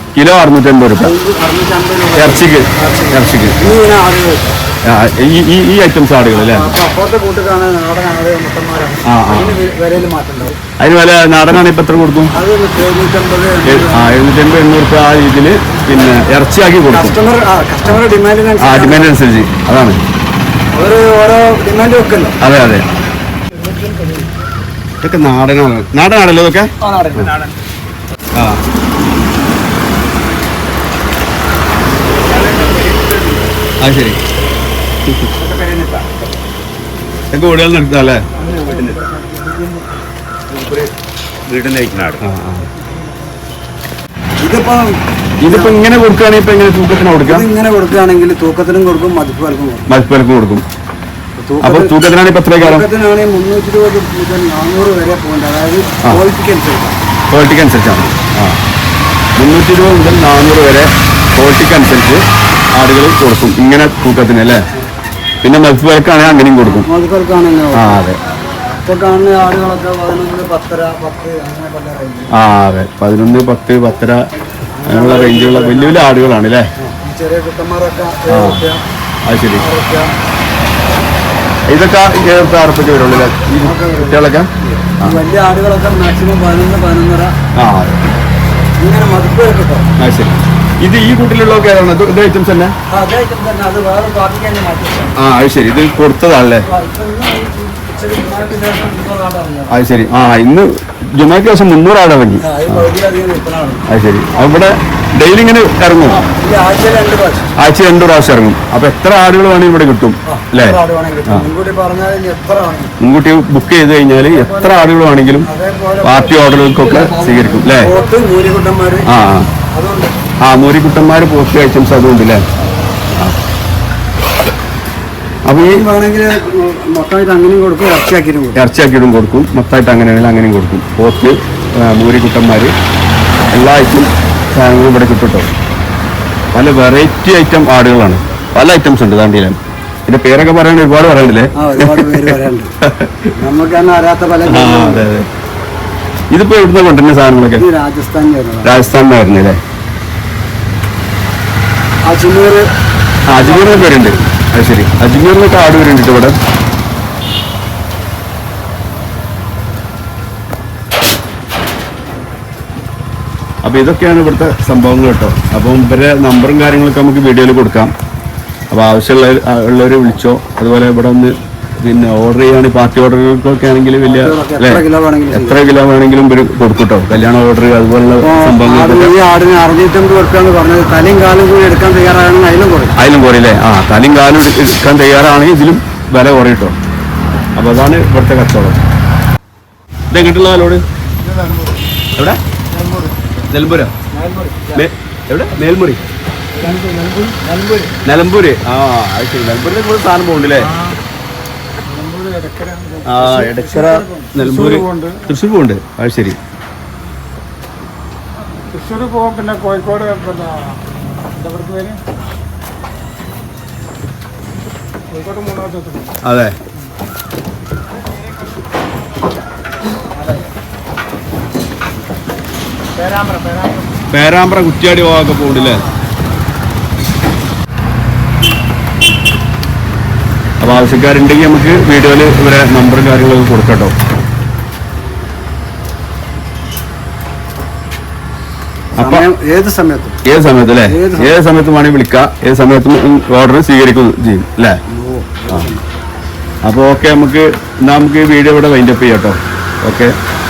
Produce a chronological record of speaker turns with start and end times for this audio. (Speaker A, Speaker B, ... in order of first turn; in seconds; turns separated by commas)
Speaker A: 0.1-1.1, Speaker B: 1.0-4.6, Speaker A: 2.1-3.7, Speaker A: 4.8-6.7, Speaker B: 6.3-10.6, Speaker A: 9.1-9.6, Speaker A: 10.8-12.3, Speaker B: 12.3-14.1, Speaker A: 13.7-17.2, Speaker B: 16.9-19.2, Speaker A: 18.6-20.0, Speaker B: 20.7-22.4, Speaker A: 22.4-22.9, Speaker A: 25.0-27.3, Speaker B: 26.9-27.3, Speaker A: 28.3-28.6, Speaker C: 32.2-33.5, Speaker A: 33.8-34.2, Speaker A: 35.1-35.3, Speaker C: 35.4-36.3, Speaker A: 37.3-38.3, Speaker B: 38.4-39.5, Speaker C: 38.4-39.0, Speaker C: 40.5-40.9, Speaker C: 41.5-42.2, Speaker A: 42.2-42.7, Speaker B: 44.4-45.9, Speaker A: 45.4-47.5, Speaker B: 47.2-49.9, Speaker A: 49.9-50.6, Speaker B: 51.4-52.0, Speaker A: 51.6-52.9, Speaker B: 52.5-57.0, Speaker A: 57.3-58.6, Speaker A: 59.4-62.2, Speaker A: 62.7-64.7, Speaker A: 65.4-66.9, Speaker B: 66.2-68.0, Speaker A: 67.7-68.2, Speaker B: 68.8-72.3, Speaker A: 72.3-74.2, Speaker B: 74.8-76.1, Speaker A: 74.9-76.7, Speaker B: 76.8-78.8, Speaker A: 78.3-78.6, Speaker A: 79.2-79.6, Speaker B: 79.5-80.1, Speaker A: 81.7-84.5, Speaker B: 83.6-87.3, Speaker A: 87.5-88.0, Speaker B: 88.8-89.9, Speaker A: 90.0-92.7, Speaker B: 92.9-95.2, Speaker A: 95.2-96.7, Speaker B: 96.6-99.9, Speaker A: 99.7-102.8, Speaker B: 102.4-103.8, Speaker A: 103.9-106.2, Speaker B: 106.1-107.5, Speaker A: 107.6-111.4, Speaker B: 110.2-112.9, Speaker A: 113.0-115.5, Speaker B: 114.3-114.9, Speaker B: 115.4-119.1, Speaker A: 116.0-118.0, Speaker A: 119.1-119.5, Speaker B: 119.7-120.1, Speaker A: 120.4-122.4, Speaker A: 125.5-125.8, Speaker B: 125.6-128.6, Speaker A: 128.6-132.7, Speaker A: 133.5-135.5, Speaker A: 136.5-143.3, Speaker B: 141.5-142.7, Speaker B: 143.3-145.1, Speaker A: 144.5-145.3, Speaker A: 146.3-147.6, Speaker B: 147.6-148.7, Speaker A: 148.6-149.6, Speaker B: 152.1-152.7, Speaker A: 153.3-156.4, Speaker B: 153.3-154.3, Speaker A: 163.6-167.9, Speaker A: 168.7-179.1, Speaker B: 174.0-175.6, Speaker B: 178.2-182.9, Speaker A: 183.0-186.8, Speaker A: 187.6-188.8, Speaker A: 190.1-190.8, Speaker B: 191.3-191.7, Speaker B: 192.7-193.2, Speaker A: 193.5-193.9, Speaker B: 194.1-194.9, Speaker A: 194.7-196.0, Speaker B: 196.5-197.9, Speaker A: 198.0-200.7, Speaker B: 201.9-204.3, Speaker A: 203.1-206.4, Speaker C: 204.4-205.2, Speaker C: 208.7-210.8, Speaker C: 211.3-212.0, Speaker C: 215.1-216.1, Speaker A: 216.2-216.6, Speaker B: 223.0-223.8, Speaker A: 224.1-225.8, Speaker A: 230.6-233.9, Speaker B: 238.9-240.2, Speaker A: 239.0-239.2, Speaker A: 240.2-244.8, Speaker B: 240.7-241.4, Speaker B: 244.9-245.8, Speaker A: 246.6-250.1